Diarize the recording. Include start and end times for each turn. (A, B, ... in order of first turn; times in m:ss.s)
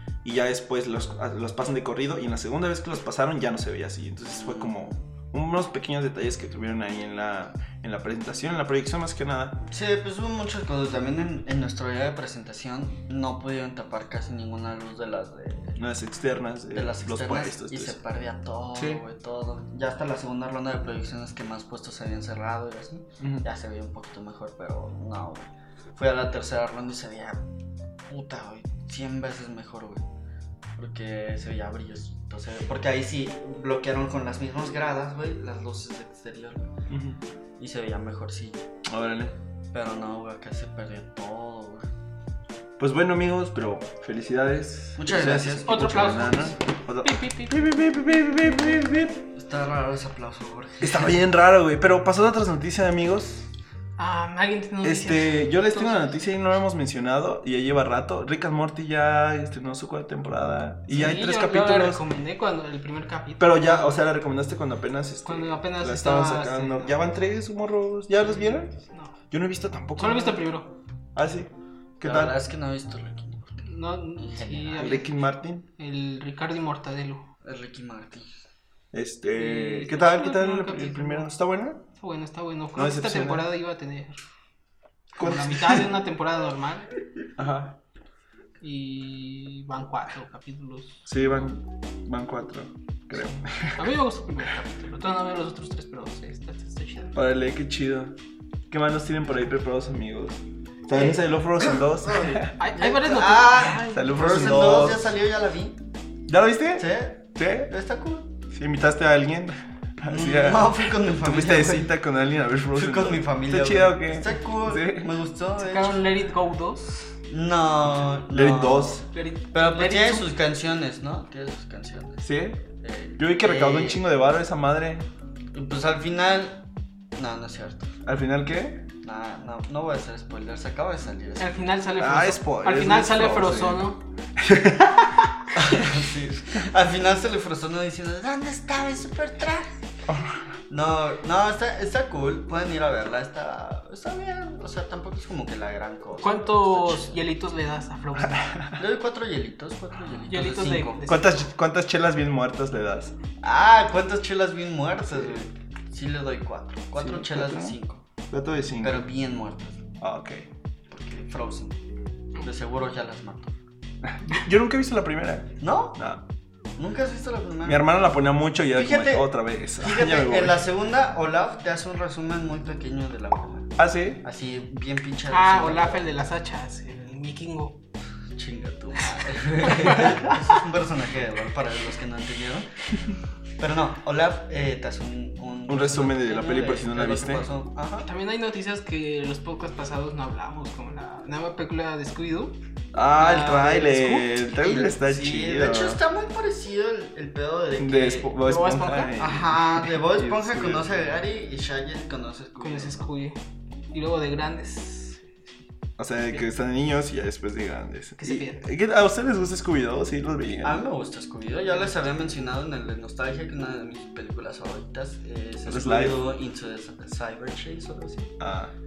0:00.2-0:09.6 A
0:04.3-0:04.8 B
0:09.7-0:15.8 B
0:15.8-0:18.0 A
0:16.7-0:27.5 B
0:18.8-0:19.0 A
0:23.2-0:23.5 A
0:28.1-0:30.1 B
0:30.8-0:36.7 B
0:36.9-0:37.2 A
0:37.6-0:38.6 B
0:38.9-0:39.4 A
0:39.7-0:41.9 B
0:42.8-0:49.3 A
0:45.0-0:45.9 B
0:45.6-0:47.6 C
0:49.3-0:51.2 B
0:50.8-0:53.5 A
0:54.0-0:56.2 C
0:54.8-1:02.0 A
1:00.9-1:04.0 C
1:03.4-1:08.7 A
1:05.2-1:07.1 C
1:08.2-1:09.2 C
1:09.3-1:10.4 A
1:10.0-1:10.8 C
1:11.2-1:12.4 A
1:12.0-1:13.6 B
1:13.6-1:15.2 C
1:14.2-1:15.0 B
1:14.8-1:15.7 A
1:15.8-1:17.3 C
1:17.4-1:18.3 B
1:18.9-1:21.8 A
1:19.4-1:21.3 C
1:22.0-1:24.2 C
1:22.8-1:23.5 A
1:25.2-1:25.8 A
1:25.2-1:26.9 C
1:27.4-1:27.8 A
1:28.6-1:31.1 C
1:31.1-1:33.8 A
1:33.8-1:37.2 C
1:37.1-1:38.2 A
1:38.7-1:42.6 A
1:40.9-1:45.9 B
1:42.6-1:44.1 C
1:43.7-1:45.0 A
1:46.3-1:47.7 A
1:46.8-1:48.3 B
1:48.5-1:55.1 A
1:50.1-1:51.9 B
1:52.7-1:56.1 B
1:55.6-1:57.1 C
1:57.3-2:04.0 B
1:58.3-1:59.0 A
1:59.1-2:00.3 C
2:02.2-2:02.6 A
2:03.2-2:05.1 A
2:05.5-2:07.9 B
2:08.0-2:08.9 A
2:09.0-2:11.6 B
2:11.4-2:14.0 C
2:12.0-2:15.9 A
2:15.6-2:19.7 B
2:20.1-2:20.4 A
2:20.7-2:27.2 B
2:26.2-2:28.6 C
2:28.4-2:28.8 A
2:28.8-2:31.1 B
2:30.3-2:31.5 C
2:31.1-2:33.1 A
2:33.4-2:38.0 B
2:35.1-2:35.4 A
2:37.0-2:37.8 A
2:38.3-2:39.0 A
2:38.8-2:39.8 B
2:40.0-2:40.5 A
2:40.9-2:41.8 B
2:42.4-2:43.6 B
2:44.0-2:46.2 A
2:45.6-2:46.0 B
2:46.8-2:47.9 B
2:47.6-2:50.6 A
2:48.7-2:56.1 B
2:53.8-2:54.2 A
2:55.3-2:57.8 C
2:58.3-3:02.7 B
2:59.6-3:00.4 C
3:03.6-3:08.1 B
3:05.7-3:07.5 A
3:08.0-3:12.6 C
3:12.9-3:16.0 A
3:13.2-3:14.5 C
3:14.6-3:18.3 B
3:17.8-3:20.9 A
3:18.4-3:19.3 C
3:19.2-3:23.1 B
3:22.6-3:23.4 C
3:23.9-3:25.5 C
3:26.0-3:30.8 A
3:28.2-3:28.6 C
3:30.6-3:38.3 B
3:35.7-3:36.2 A
3:38.4-3:38.7 A